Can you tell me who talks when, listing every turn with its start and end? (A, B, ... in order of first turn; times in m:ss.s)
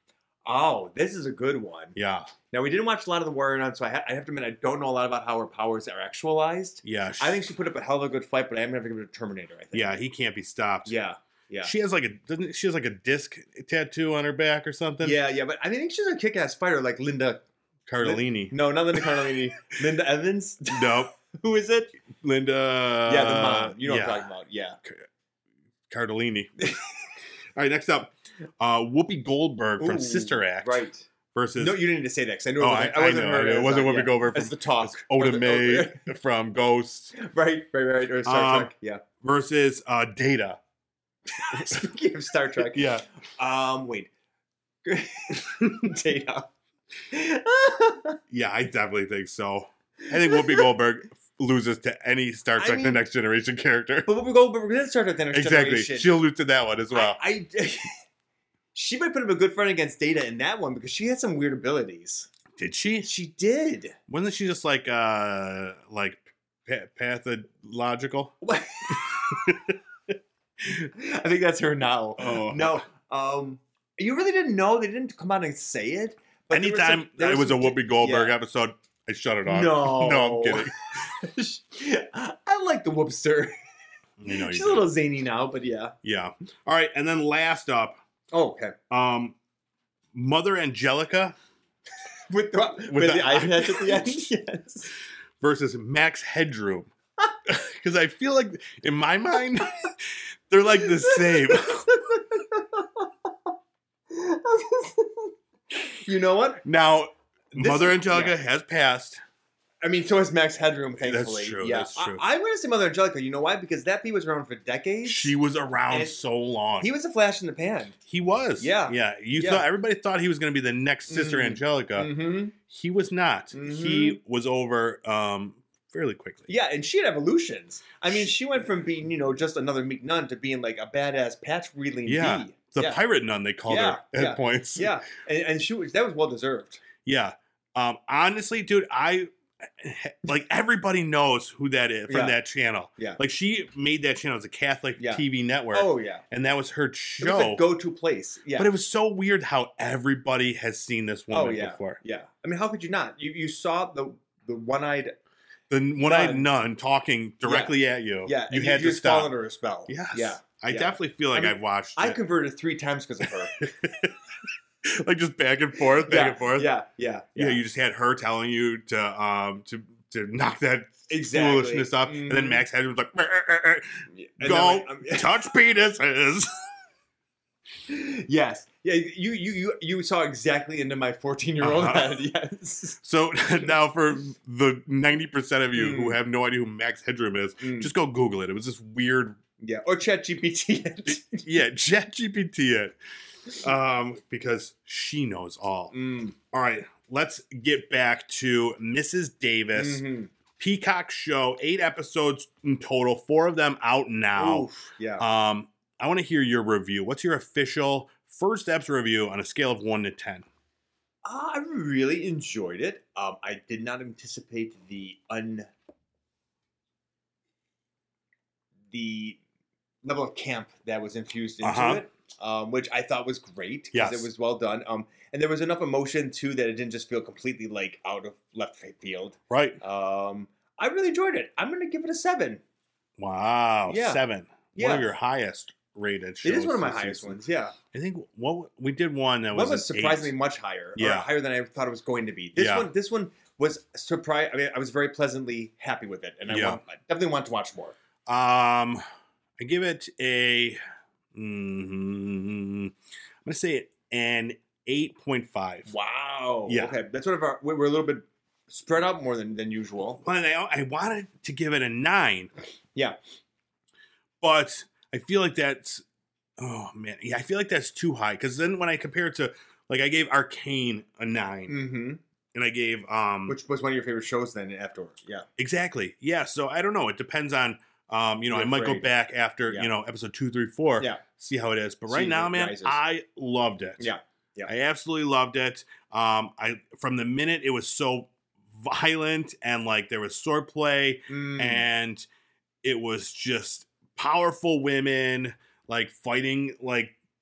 0:00.4-0:02.0 A
0:01.9-0:02.3 B
0:02.5-0:10.0 A
0:06.8-0:07.5 B
0:09.7-0:10.9 B
0:10.8-0:11.7 A
0:11.6-0:15.2 B
0:15.0-0:17.4 A
0:17.9-0:19.0 B
0:18.0-0:21.9 A
0:20.7-0:21.1 B
0:22.2-0:24.3 B
0:23.0-0:24.8 A
0:25.9-0:26.5 B
0:26.6-0:26.9 A
0:27.6-0:30.8 B
0:29.8-0:31.1 A
0:31.3-0:31.8 B
0:31.6-0:36.0 A
0:32.6-0:37.1 B
0:37.1-0:39.0 A
0:38.2-0:38.7 B
0:39.2-0:40.6 B
0:41.3-0:44.1 A
0:42.7-0:43.0 B
0:44.8-0:46.5 A
0:47.1-0:48.2 A
0:48.3-0:54.1 B
0:50.2-0:50.7 A
0:52.6-0:53.0 A
0:54.0-0:56.1 A
0:55.3-0:57.2 B
0:56.9-0:58.0 A
0:58.7-1:02.3 A
1:02.6-1:03.1 B
1:03.0-1:04.0 A
1:04.1-1:08.4 B
1:08.4-1:09.0 A
1:09.3-1:09.7 B
1:10.6-1:18.3 A
1:12.2-1:12.8 B
1:16.5-1:20.9 B
1:19.4-1:23.5 A
1:24.2-1:24.9 B
1:24.3-1:26.0 A
1:26.0-1:28.0 B
1:28.3-1:28.8 A
1:28.9-1:29.4 B
1:30.1-1:31.3 B
1:32.3-1:34.9 A
1:32.9-1:34.2 B
1:35.4-1:36.9 B
1:37.4-1:41.9 B
1:40.8-1:43.3 A
1:44.1-1:46.6 A
1:46.6-1:49.2 B
1:47.5-1:48.3 A
1:49.8-1:55.3 A
1:51.0-1:52.2 B
1:55.0-1:56.9 B
1:55.9-1:56.2 A
1:56.8-1:58.0 A
1:58.1-2:06.5 B
1:58.6-1:59.6 A
2:01.1-2:02.5 A
2:03.5-2:04.2 A
2:06.5-2:13.0 A
2:12.0-2:14.9 B
2:13.7-2:16.8 A
2:17.0-2:27.6 B
2:22.1-2:22.4 A
2:25.0-2:26.2 A
2:27.2-2:28.7 A
2:28.5-2:32.0 B
2:31.3-2:35.1 A
2:35.7-2:39.3 B
2:36.0-2:36.5 A
2:37.4-2:43.6 A
2:39.9-2:42.2 B
2:43.6-2:44.1 B
2:44.8-2:46.7 B
2:46.0-2:47.6 A
2:47.4-2:56.5 B
2:51.1-2:52.6 A
2:54.1-2:55.3 A
2:57.9-3:03.0 A
3:01.6-3:02.2 B
3:03.0-3:09.4 B
3:05.8-3:06.2 A
3:07.6-3:07.9 A
3:09.6-3:11.4 A
3:11.1-3:13.0 B
3:13.5-3:15.9 B
3:15.9-3:16.3 A
3:16.5-3:20.0 B
3:19.7-3:20.3 A
3:20.6-3:30.4 B
3:24.3-3:25.2 A
3:31.2-3:35.7 A
3:38.9-3:39.4 A
3:40.0-3:52.6 A
3:41.6-3:42.0 B
3:43.9-3:44.3 B
3:49.5-3:49.8 B
3:53.2-3:57.4 B
3:53.9-3:54.2 A
3:54.7-3:55.1 A
3:56.4-3:57.7 A
3:57.9-4:00.3 B
3:59.5-4:07.9 A
4:01.0-4:01.3 B
4:02.6-4:02.9 B
4:06.5-4:06.8 B
4:08.3-4:09.0 B
4:09.6-4:10.8 B
4:11.3-4:15.9 B
4:15.9-4:20.2 A
4:16.7-4:17.0 B
4:20.2-4:22.5 B
4:24.4-4:26.0 B
4:26.6-4:31.8 B
4:31.7-4:32.2 A
4:32.5-4:33.6 B
4:33.5-4:35.5 A
4:35.6-4:44.1 B
4:38.5-4:39.1 A
4:42.1-4:43.0 A
4:44.0-4:44.7 A
4:44.7-4:52.3 B
4:51.3-4:51.8 A
4:52.8-4:57.1 B